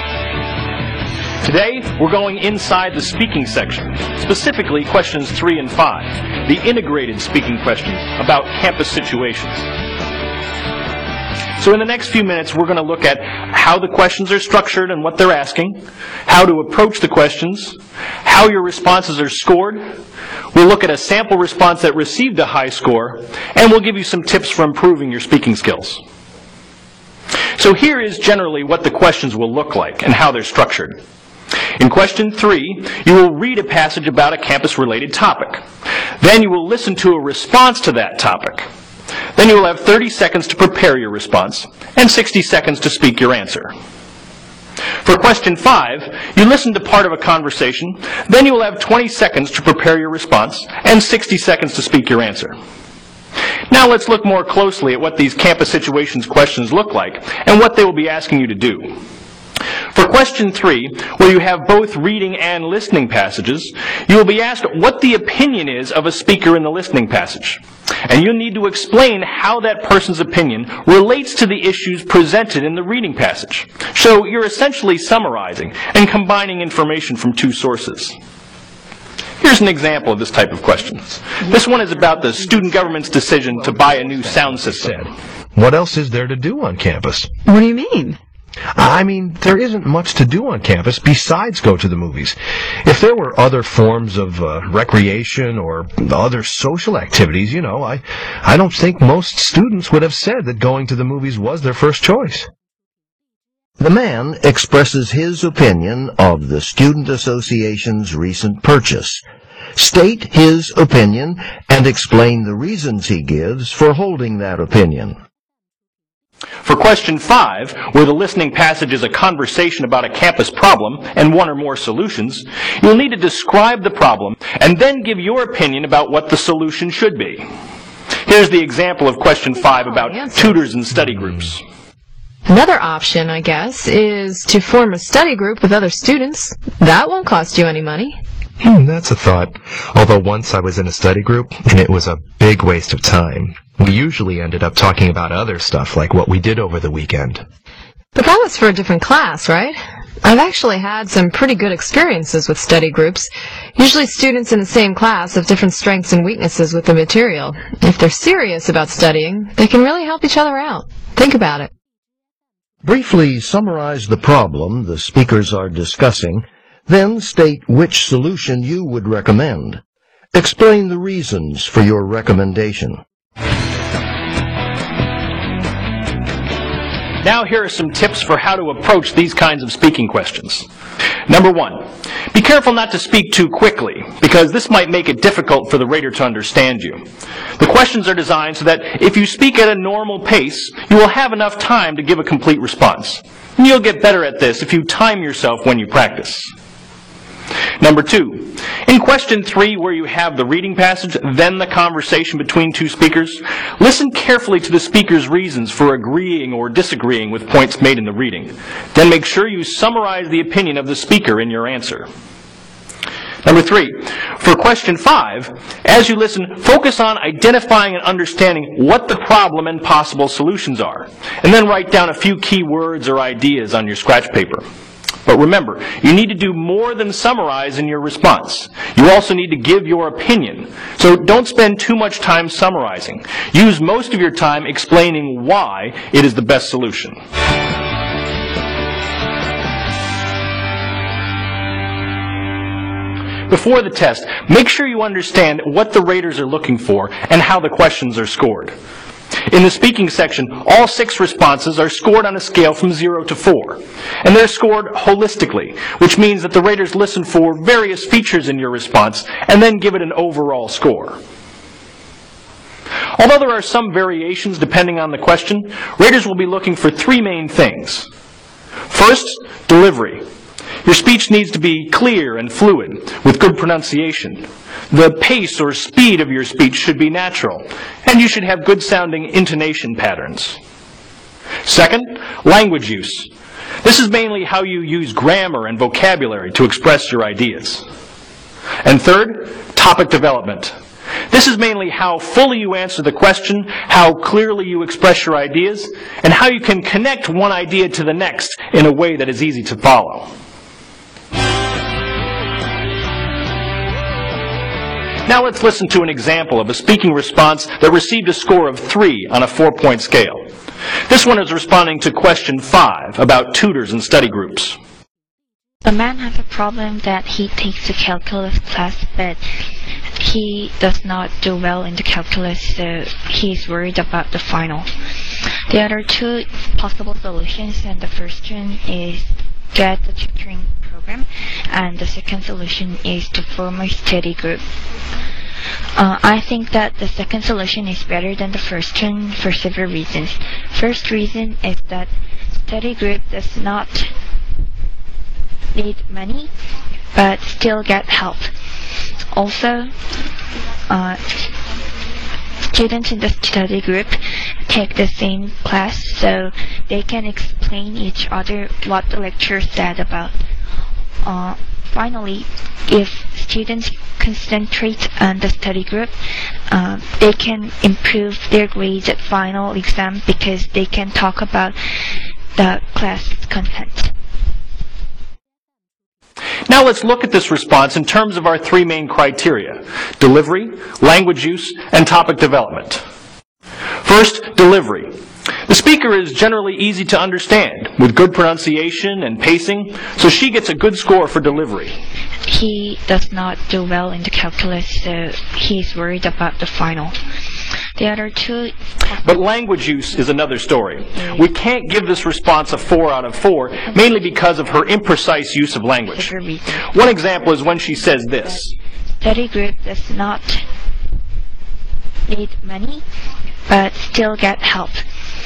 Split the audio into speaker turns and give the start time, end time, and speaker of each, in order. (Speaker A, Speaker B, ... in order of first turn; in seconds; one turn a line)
Speaker A: 1.4-9.7
Speaker A: 11.6-19.8
Speaker A: 20.5-26.0
Speaker A: 27.6-31.0
Speaker A: 31.8-35.6
Speaker A: 36.2-38.6
Speaker A: 39.4-43.7
Speaker A: 45.0-52.5
Speaker A: 53.7-59.0
Speaker A: 59.9-78.2
Speaker A: 79.4-85.1
Speaker B: 83.4-87.3
Speaker C: 87.4-88.2
Speaker B: 88.8-102.5
Speaker D: 103.8-109.2
Speaker D: 109.8-115.2
Speaker A: 116.6-127.5
Speaker A: 128.2-131.6
Speaker C: 129.5-130.6
Speaker C: 132.5-138.2
Speaker B: 138.6-147.4
Speaker C: 148.1-161.7
Speaker D: 162.8-169.8
Speaker D: 170.3-173.0
Speaker A: 177.2-180.7
Speaker A: 181.3-187.0
Speaker A: 187.6-196.5
Speaker A: 197.8-212.1
Speaker A: 213.4-224.6
Speaker A: 225.2-237.2
Speaker A: 243.5-248.7
Speaker A: 249.5-261.2
Speaker A: 263.2-268.1
Speaker A: 268.9-270.2
Speaker A: 270.8-280.6
Speaker A: 281.6-283.3
Speaker A: 283.8-287.8
Speaker A: 288.8-290.7
Speaker A: 291.3-300.3
Speaker A: 305.2-310.5
Speaker A: 311.1-314.8
Speaker E: 315.8-319.4
Speaker E: 320.2-334.7
Speaker E: 335.9-342.1
Speaker E: 342.6-344.1
Speaker E: 345.7-346.5
Speaker E: 347.1-348.5
Speaker E: 349.3-349.9
Speaker E: 350.9-351.5
Speaker E: 352.7-360.4
Speaker E: 361.2-366.1
Speaker E: 366.7-371.8
Speaker E: 372.5-374.1
Speaker A: 376.7-383.0
Speaker A: 384.0-385.1
Speaker A: 385.7-391.9
Speaker E: 392.4-397.2
Speaker E: 397.9-401.6
Speaker A: 399.2-406.3
Speaker E: 402.3-403.1
Speaker E: 403.7-408.6
Speaker A: 406.9-408.7
Speaker E: 409.2-410.6
Speaker E: 412.3-413.0
Speaker E: 413.7-415.0